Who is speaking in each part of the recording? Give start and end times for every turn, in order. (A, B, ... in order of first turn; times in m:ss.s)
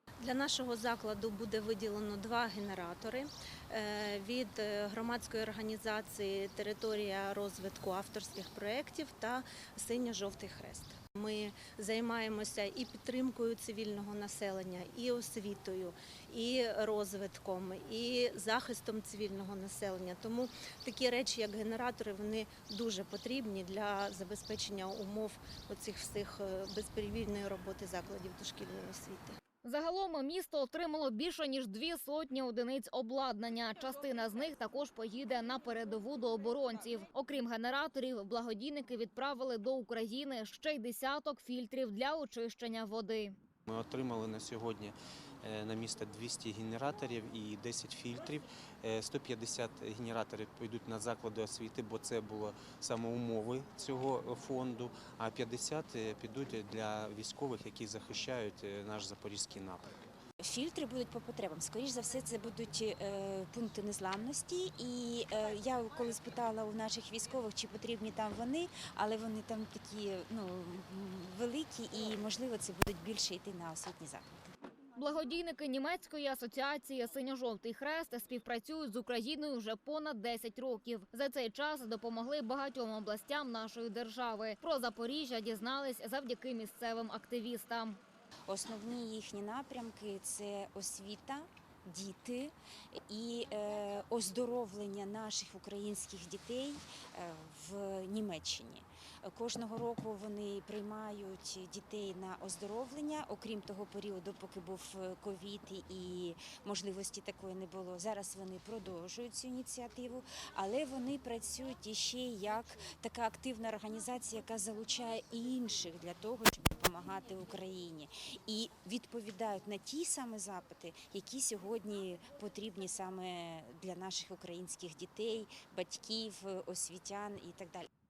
0:00.2-0:29.4 A
0:29.6-0:43.3 B
0:43.7-0:59.9 C
1:00.4-1:14.5 D
1:15.0-1:28.0 B
1:28.5-2:07.9 D